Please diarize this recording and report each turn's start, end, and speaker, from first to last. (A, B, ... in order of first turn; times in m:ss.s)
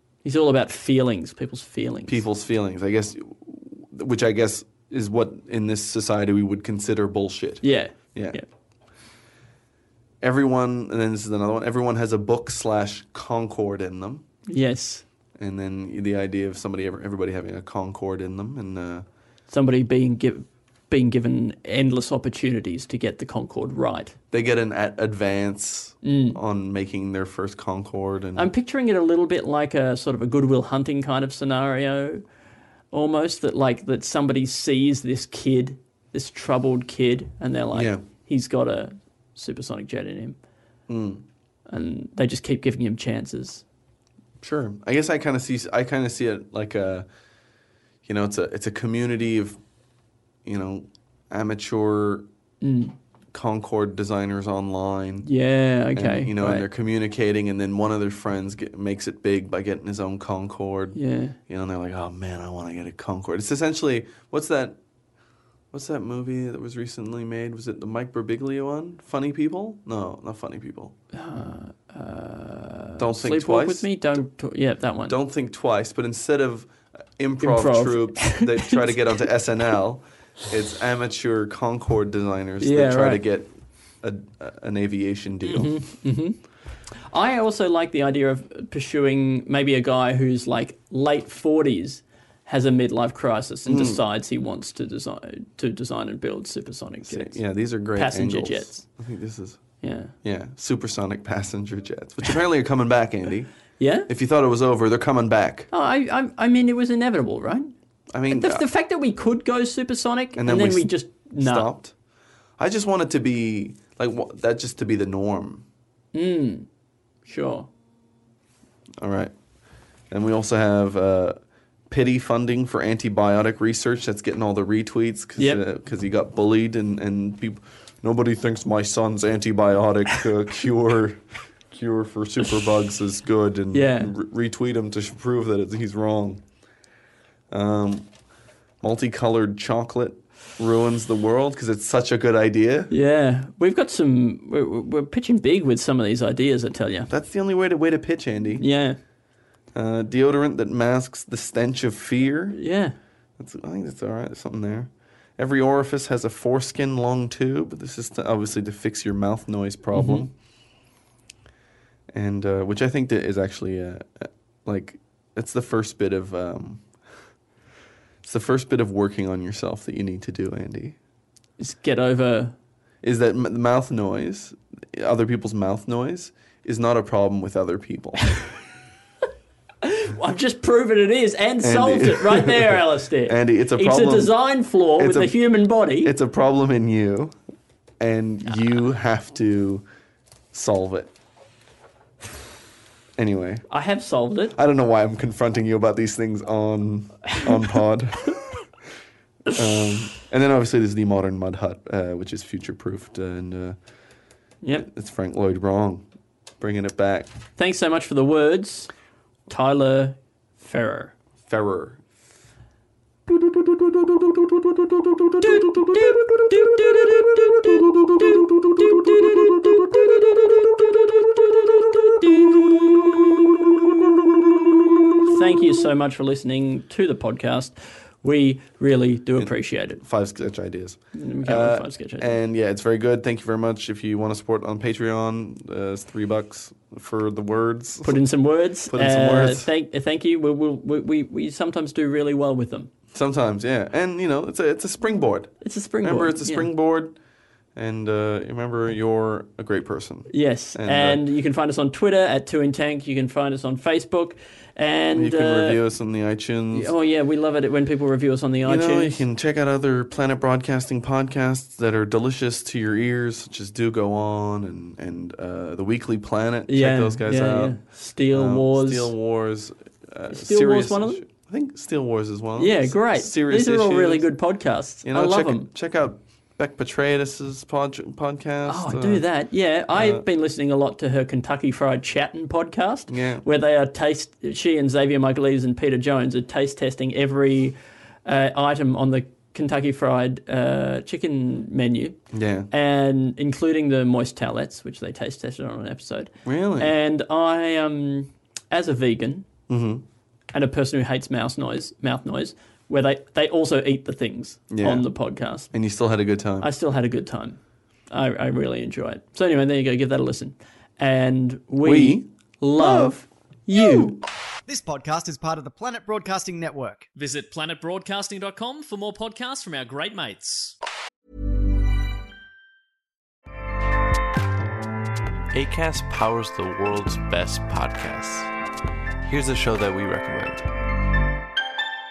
0:00.2-0:02.2 A
0:02.1-0:07.6 B
0:07.6-0:08.4 A
0:08.1-0:08.4 B
0:10.2-0:14.2 B
0:14.5-0:15.0 A
0:15.4-0:19.0 B
0:19.5-0:24.1 A
0:24.3-0:28.5 B
0:26.0-0:26.4 A
0:28.4-0:32.2 A
0:32.9-0:40.4 A
0:37.7-0:38.0 B
0:40.9-0:41.2 B
0:41.7-0:43.6 A
0:44.4-0:47.0 B
0:48.0-0:49.6 B
0:50.4-0:52.2 B
0:52.6-0:52.9 A
0:53.3-0:55.3 B
0:55.2-0:56.7 A
0:55.9-1:04.8 B
1:00.9-1:01.4 A
1:05.7-1:10.9 B
1:11.1-1:15.2 A
1:13.0-1:13.9 B
1:15.1-1:23.5 B
1:17.4-1:19.2 A
1:22.6-1:23.2 A
1:24.0-1:25.8 B
1:25.4-1:26.4 A
1:27.1-1:37.4 A
1:33.7-1:34.0 B
1:37.0-1:39.6 B
1:37.9-1:38.8 A
1:39.8-1:40.1 A
1:40.2-1:43.5 B
1:43.8-1:44.1 A
1:44.1-1:45.7 B
1:45.7-1:47.7 A
1:48.1-1:48.6 B
1:48.3-1:51.7 A
1:50.4-1:51.9 B
1:52.6-1:55.6 B
1:56.1-1:56.7 A
1:57.2-1:57.7 A
1:59.0-1:59.3 B
2:00.1-2:01.4 B
2:01.9-2:11.2 B
2:05.4-2:05.6 A
2:11.7-2:16.4 B
2:13.7-2:14.1 A
2:17.5-2:18.1 B
2:18.8-2:22.9 B
2:22.9-2:27.1 A
2:27.1-2:28.6 B
2:28.6-2:29.0 A
2:29.7-2:32.6 B
2:32.5-2:33.0 A
2:33.4-2:40.3 B
2:39.9-2:40.3 A
2:42.1-2:46.8 B
2:48.2-2:51.0 B
2:51.6-2:52.5 A
2:53.0-2:58.4 B
2:59.8-3:06.1 A
3:01.6-3:04.4 B
3:05.0-3:05.4 B
3:06.0-3:07.3 B
3:08.0-3:09.8 B
3:10.5-3:11.1 B
3:13.2-3:13.6 B
3:13.7-3:14.6 A
3:14.5-3:18.4 B
3:19.5-3:23.8 B
3:24.6-3:24.9 A
3:24.7-3:26.0 B
3:26.6-3:27.3 B
3:27.6-3:28.9 A
3:29.5-3:31.1 A
3:31.5-3:32.0 B
3:34.2-3:36.1 B
3:35.4-3:39.5 A
3:38.1-3:39.4 B
3:41.9-3:43.2 A
3:43.6-3:45.3 B
3:45.3-3:50.0 A
3:49.4-3:58.2 B
3:51.1-3:52.4 A
3:58.0-4:02.9 A
3:58.9-3:59.7 B
4:03.1-4:07.1 B
4:05.6-4:06.7 A
4:07.7-4:11.2 B
4:10.3-4:15.8 A
4:15.1-4:16.9 B
4:16.7-4:19.2 A
4:18.6-4:27.8 B
4:26.7-4:29.1 A
4:28.3-4:34.2 B
4:30.3-4:31.2 A
4:32.6-4:35.7 A
4:35.0-4:39.2 B
4:38.6-4:52.2 A
4:39.9-4:40.2 B
4:43.1-4:43.4 B
4:52.3-4:52.7 B
4:52.7-4:59.5 A
4:56.4-4:56.9 B
4:59.7-5:00.0 B
5:00.5-5:05.7 A
5:04.7-5:05.0 B
5:05.7-5:06.7 B
5:06.6-5:07.6 A
5:08.1-5:14.2 A
5:11.8-5:13.2 B
5:13.7-5:14.2 B
5:14.6-5:17.1 C
5:17.1-5:20.7 D
5:25.5-5:28.5 E
5:29.2-5:30.7 E